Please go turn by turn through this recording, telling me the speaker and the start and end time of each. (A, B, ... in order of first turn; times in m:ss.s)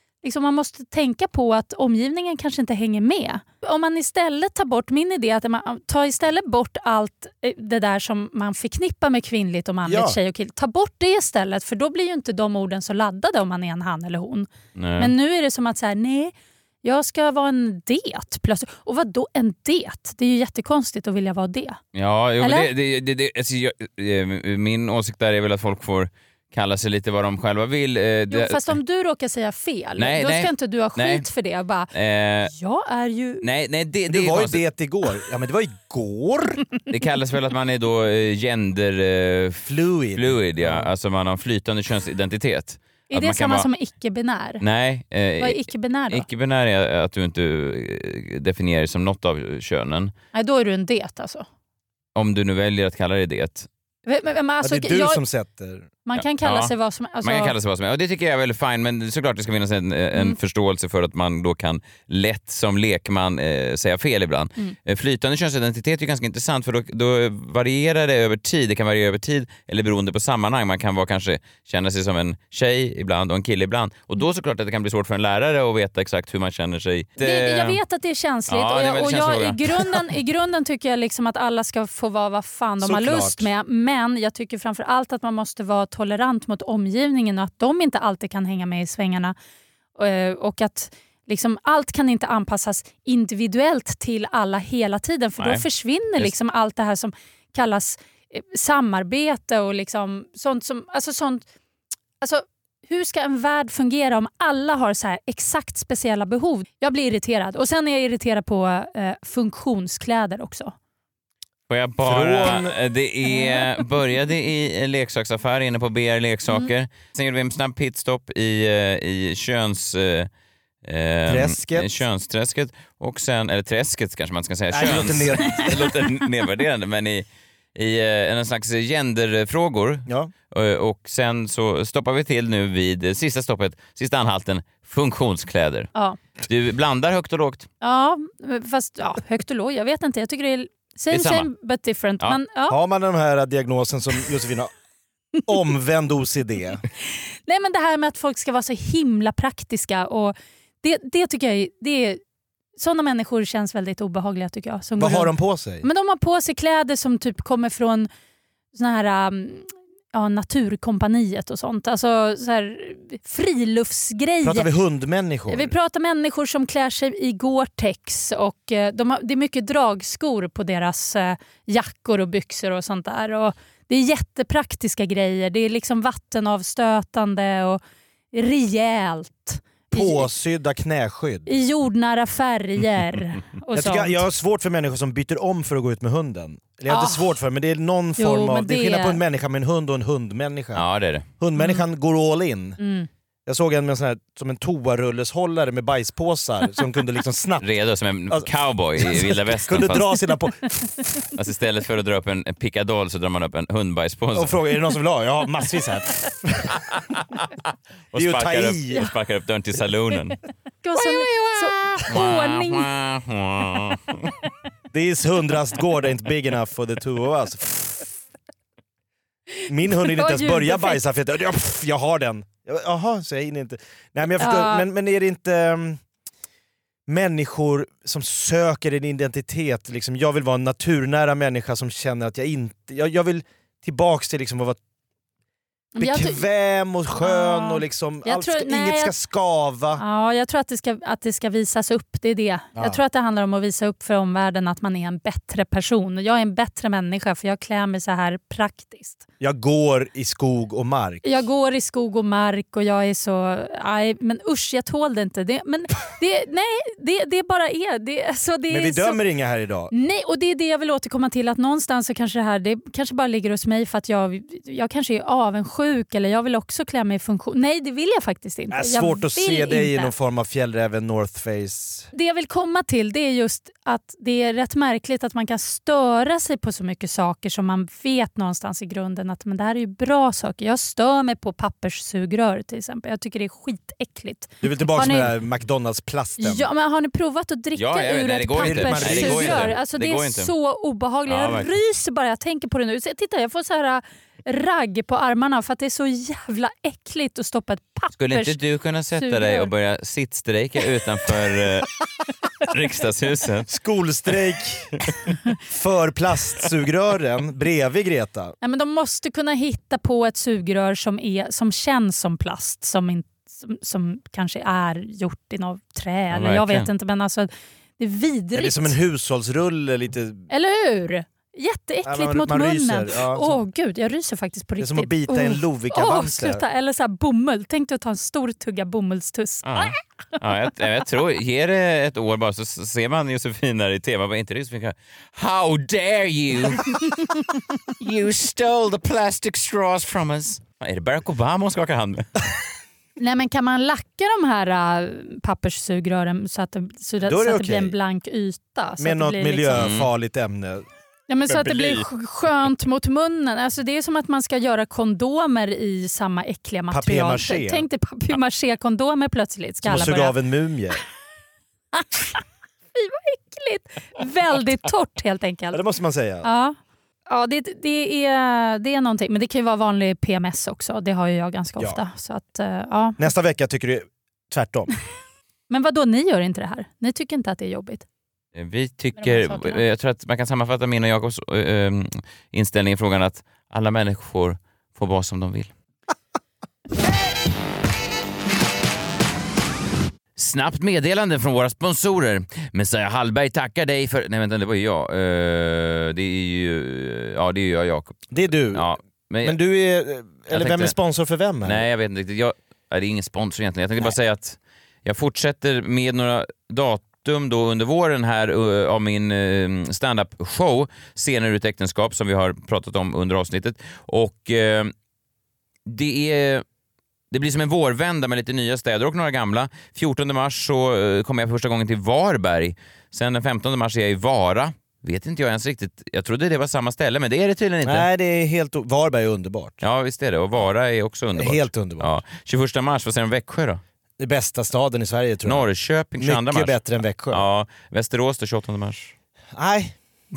0:00.2-0:21.8 A
0:09.8-0:10.2 B
0:14.8-0:15.1 C
0:21.9-0:28.8 C
0:22.4-0:22.7 A
0:28.3-0:31.9 A
0:30.0-0:31.2 C
0:31.9-0:32.5 C
0:32.4-0:33.4 A
0:33.4-0:34.6 C
0:34.1-0:36.6 B
0:36.9-0:43.7 C
0:39.6-0:40.9 B
0:43.1-0:44.6 A
0:44.6-0:50.1 C
0:45.4-0:46.3 A
0:50.3-0:51.4 A
0:52.2-0:53.7 C
0:54.0-0:55.2 A
0:54.6-0:55.9 B
0:56.0-0:57.5 A
0:56.2-1:17.8 C
1:17.2-1:29.3 A
1:18.5-1:20.1 C
1:22.8-1:23.5 B
1:30.0-1:41.4 A
1:35.4-1:35.6 C
1:42.2-1:50.7 A
1:51.7-2:00.3 C
1:52.0-1:52.7 B
2:00.8-2:15.9 C
2:01.3-2:01.9 B
2:04.7-2:05.9 B
2:16.4-2:17.7 C
2:17.8-2:22.8 A
2:21.1-2:21.5 C
2:22.7-2:24.7 B
2:25.4-2:26.8 B
2:27.4-2:32.2 A
2:32.8-2:38.1 A
2:35.0-2:35.8 B
2:38.7-2:44.7 A
2:44.4-2:45.7 B
2:45.5-2:57.8 A
2:58.3-3:00.3 A
2:59.9-3:01.5 B
3:01.5-3:04.2 A
3:03.7-3:10.8 B
3:06.9-3:07.3 A
3:08.2-3:09.2 A
3:10.7-3:11.2 C
3:11.4-3:12.8 B
3:11.6-3:11.8 A
3:12.8-3:13.1 A
3:13.4-3:17.6 B
3:17.6-3:20.1 C
3:18.3-3:21.2 B
3:21.4-3:24.6 C
3:24.3-3:26.8 B
3:28.1-3:30.4 C
3:28.1-3:29.1 B
3:30.8-3:32.9 A
3:32.1-3:34.3 C
3:34.9-3:38.1 B
3:39.7-3:46.0 B
3:39.9-3:41.0 A
3:44.4-3:44.8 A
3:47.1-3:54.8 B
3:55.9-3:56.4 A
3:56.0-4:00.0 B
3:57.2-3:59.1 A
4:00.0-4:09.2 A
4:09.4-4:11.2 B
4:11.2-4:19.2 A
4:18.7-4:19.9 B
4:19.9-4:30.1 A
4:28.7-4:32.1 B
4:32.1-4:45.3 A
4:44.6-4:46.7 B
4:46.4-4:58.6 A
4:47.7-4:50.5 C
4:48.6-4:49.7 B
4:51.3-4:51.7 C
4:58.2-5:01.9 C
4:59.2-4:59.7 A
5:02.6-5:03.7 C
5:03.7-5:05.0 B
5:05.6-5:08.6 B
5:08.6-5:19.0 A
5:16.3-5:16.9 C
5:18.5-5:20.5 B
5:20.5-5:29.9 A
5:22.0-5:23.6 B
5:24.8-5:26.6 B
5:29.6-5:37.4 C
5:37.9-5:42.4 C
5:43.2-5:49.8 A
5:47.2-5:47.9 B
5:49.0-5:50.8 B
5:49.7-5:50.1 C
5:51.3-6:00.3 A
5:51.5-5:52.0 C
5:56.9-5:57.8 B
5:59.8-6:01.0 B
6:01.9-6:02.4 A
6:02.9-6:05.8 A
6:05.7-6:06.5 B
6:06.4-6:06.8 A
6:07.3-6:13.2 A
6:13.2-6:14.9 B
6:15.7-6:18.0 A
6:18.5-6:25.7 C
6:19.2-6:19.8 A
6:30.4-6:39.6 C
6:38.3-6:38.9 B
6:39.4-6:41.8 B
6:40.5-6:40.9 C
6:41.6-6:54.9 C
6:55.8-6:56.6 C
6:57.3-7:08.1 C
7:07.8-7:09.8 B
7:09.8-7:13.8 C
7:11.4-7:12.1 B
7:14.2-7:15.7 B
7:15.4-7:16.8 C
7:16.2-7:17.4 B
7:17.3-7:19.1 C
7:19.5-7:20.0 B